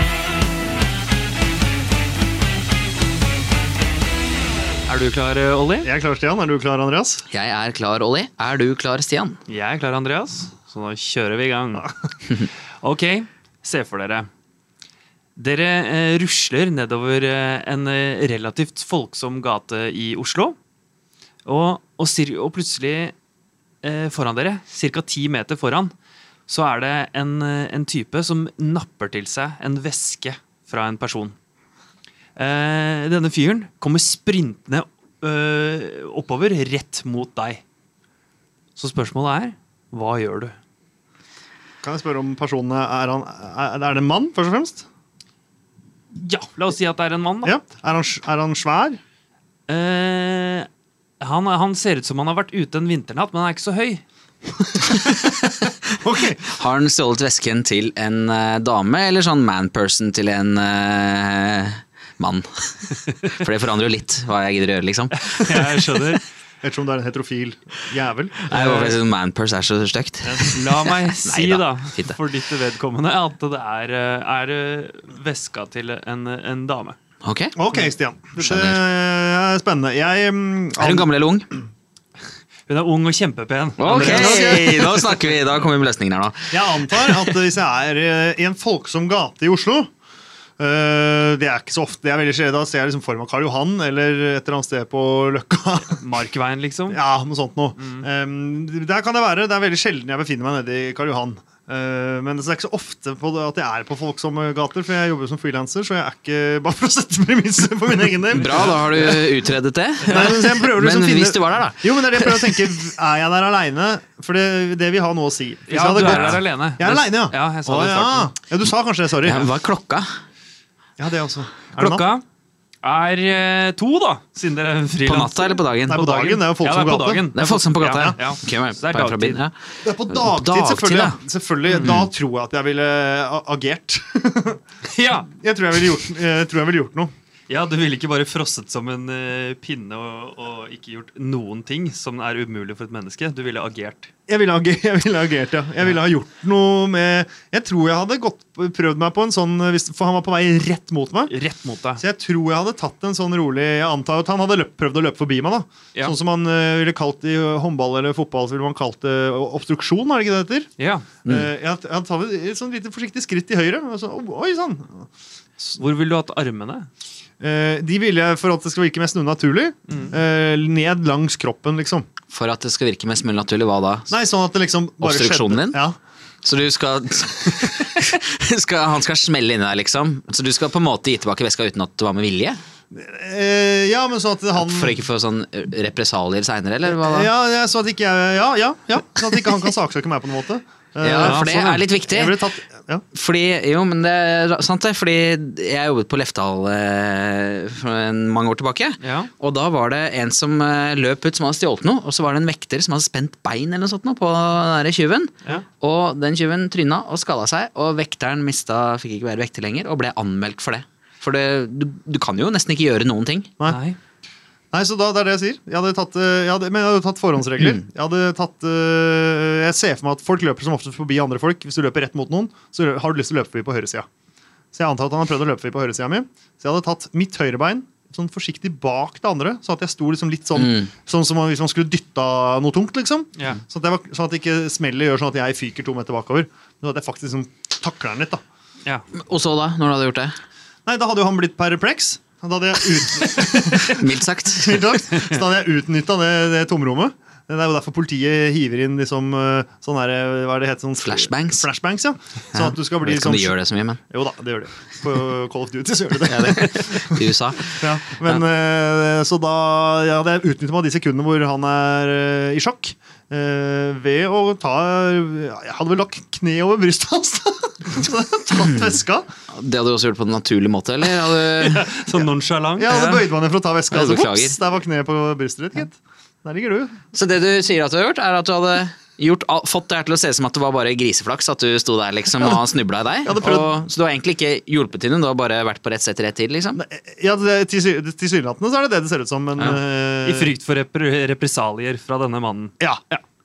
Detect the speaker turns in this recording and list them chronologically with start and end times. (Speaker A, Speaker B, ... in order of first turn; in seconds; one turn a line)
Speaker A: 4.9-5.9
Speaker B: 5.8-7.3
Speaker C: 7.3-9.4
Speaker A: 9.5-11.9
Speaker A: 12.8-14.3
Speaker A: 15.4-20.6
Speaker A: 21.4-23.1
Speaker A: 23.8-25.9
Speaker A: 26.5-31.4
Speaker A: 32.4-37.6
Speaker A: 38.8-40.5
Speaker B: 41.8-44.9
Speaker A: 46.1-47.5
Speaker B: 47.4-49.0
Speaker A: 49.7-50.7
Speaker A: 51.2-54.0
Speaker C: 55.2-55.5
Speaker B: 56.0-56.6
Speaker C: 56.5-65.6
Speaker A: 65.2-66.2
Speaker B: 66.6-68.5
Speaker C: 68.4-72.2
Speaker A: 68.5-69.0
Speaker A: 70.5-77.0
Speaker C: 77.2-77.6
Speaker B: 77.5-81.1
Speaker C: 78.4-78.8
Speaker C: 80.8-81.5
Speaker A: 82.7-85.0
Speaker C: 83.8-87.3
Speaker B: 84.1-84.9
Speaker B: 86.5-89.9
Speaker B: 90.6-96.0
Speaker A: 95.9-97.0
Speaker B: 96.9-109.2
Speaker A: 97.8-98.0
Speaker C: 108.3-112.8
Speaker A: 108.4-109.2
Speaker B: 110.1-119.5
Speaker A: 115.7-118.3
Speaker C: 116.0-116.4
Speaker C: 119.2-120.1
Speaker B: 121.0-122.1
Speaker A: 121.8-122.2
Speaker A: 122.8-129.4
Speaker C: 125.0-126.1
Speaker B: 125.8-127.3
Speaker C: 127.3-129.5
Speaker B: 127.9-128.2
Speaker B: 129.8-134.6
Speaker C: 130.1-131.2
Speaker A: 131.7-132.0
Speaker C: 131.8-132.1
Speaker A: 134.8-135.3
Speaker B: 135.3-137.1
Speaker A: 137.5-144.1
Speaker B: 144.3-151.3
Speaker A: 151.3-152.0
Speaker B: 152.0-160.7
Speaker A: 160.8-161.1
Speaker B: 161.3-165.1
Speaker A: 165.7-166.9
Speaker B: 167.4-172.1
Speaker A: 169.9-170.1
Speaker C: 172.3-174.1
Speaker B: 174.1-176.0
Speaker C: 175.0-175.8
Speaker C: 176.4-182.6
Speaker B: 182.9-185.0
Speaker C: 184.5-187.3
Speaker B: 186.9-191.5
Speaker C: 191.0-192.5
Speaker A: 191.1-191.8
Speaker B: 192.0-193.1
Speaker C: 193.1-213.5
Speaker A: 199.0-199.3
Speaker A: 213.7-214.0
Speaker B: 214.7-224.1
Speaker B: 224.7-238.4
Speaker C: 230.6-230.9
Speaker C: 239.2-240.4
Speaker B: 240.9-269.3
Speaker C: 243.8-245.0
Speaker C: 251.0-251.7
Speaker C: 252.5-254.0
Speaker C: 256.3-258.4
Speaker C: 269.5-271.8
Speaker A: 271.6-273.3
Speaker B: 272.8-277.0
Speaker C: 273.9-274.6
Speaker C: 277.1-286.8
Speaker B: 282.4-282.6
Speaker B: 283.3-283.8
Speaker B: 286.8-290.6
Speaker A: 290.2-292.7
Speaker B: 292.8-293.2